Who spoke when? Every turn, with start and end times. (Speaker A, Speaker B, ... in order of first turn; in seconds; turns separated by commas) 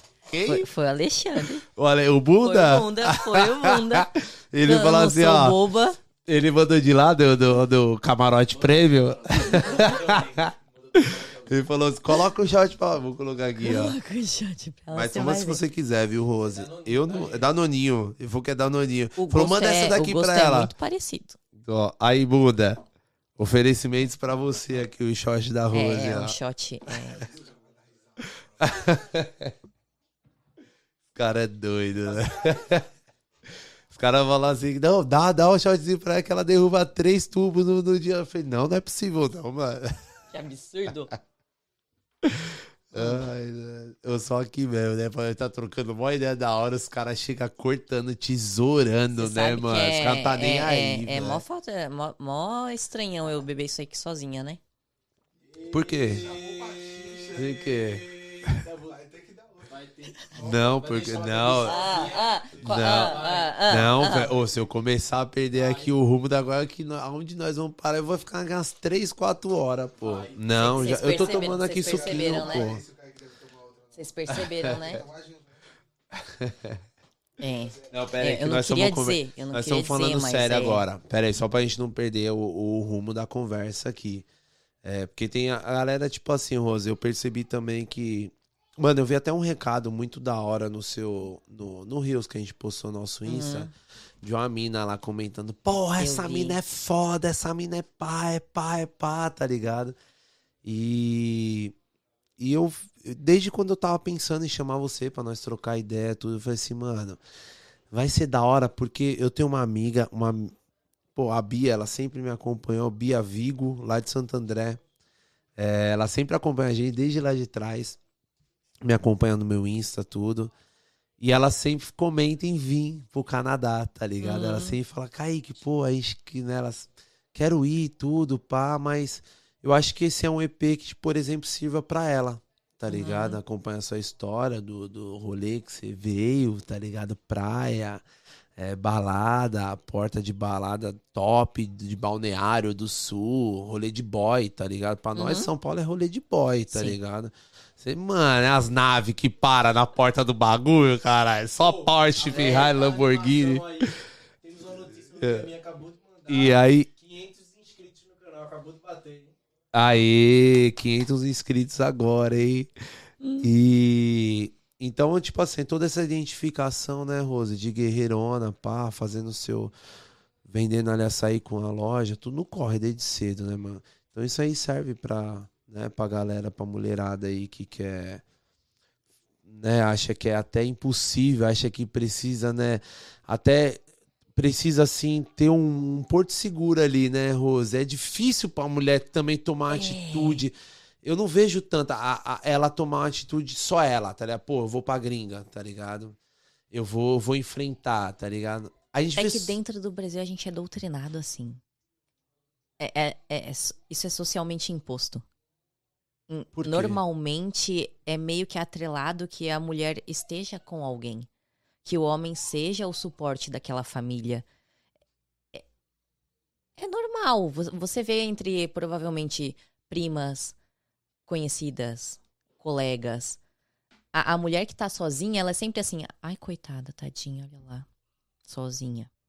Speaker A: 0.3-0.7, Speaker B: 0.4-1.6, Speaker A: 1.6-5.6, Speaker B: 2.4-4.1, Speaker B: 4.6-6.0, Speaker A: 6.2-14.0, Speaker C: 8.6-11.7, Speaker B: 13.6-15.6, Speaker A: 14.9-20.7, Speaker C: 16.5-17.5, Speaker B: 19.1-21.4, Speaker A: 21.5-22.8, Speaker A: 23.4-26.4, Speaker B: 25.7-27.3, Speaker C: 27.2-27.7, Speaker A: 28.6-29.5, Speaker A: 31.1-32.9, Speaker A: 33.9-40.1, Speaker B: 40.3-41.1, Speaker A: 42.2-51.4, Speaker B: 42.9-43.2, Speaker B: 49.1-54.6, Speaker C: 55.5-63.6, Speaker A: 55.7-56.4, Speaker A: 57.2-58.7, Speaker A: 60.3-61.9, Speaker B: 61.6-64.3, Speaker A: 62.6-72.8, Speaker C: 65.6-65.9, Speaker C: 70.0-73.9, Speaker B: 70.5-72.7, Speaker B: 73.9-75.1, Speaker A: 74.3-75.0, Speaker A: 76.1-76.8, Speaker B: 77.4-80.8, Speaker A: 77.8-84.2, Speaker A: 84.8-93.7, Speaker B: 93.2-93.7, Speaker A: 94.2-100.0, Speaker B: 96.0-96.6, Speaker A: 100.6-101.8, Speaker A: 102.4-107.2, Speaker A: 107.9-110.5, Speaker A: 111.1-114.8, Speaker A: 115.5-118.0, Speaker A: 118.8-120.5, Speaker A: 121.2-138.0, Speaker B: 124.2-124.8, Speaker B: 132.9-133.4, Speaker A: 138.6-154.0, Speaker B: 145.1-145.5, Speaker B: 146.7-147.0, Speaker C: 151.6-159.3, Speaker A: 155.2-155.5, Speaker A: 156.3-156.9, Speaker A: 159.7-162.7, Speaker B: 163.2-163.5, Speaker A: 163.4-169.7, Speaker A: 170.4-178.2, Speaker A: 179.4-183.8, Speaker A: 184.3-196.2, Speaker B: 189.7-190.4, Speaker A: 196.7-199.6, Speaker B: 199.1-201.6, Speaker B: 202.8-205.2, Speaker B: 206.3-211.3, Speaker A: 206.6-207.0, Speaker B: 211.8-214.4, Speaker B: 216.8-220.6, Speaker B: 221.2-223.4, Speaker B: 224.1-227.9, Speaker B: 228.4-229.1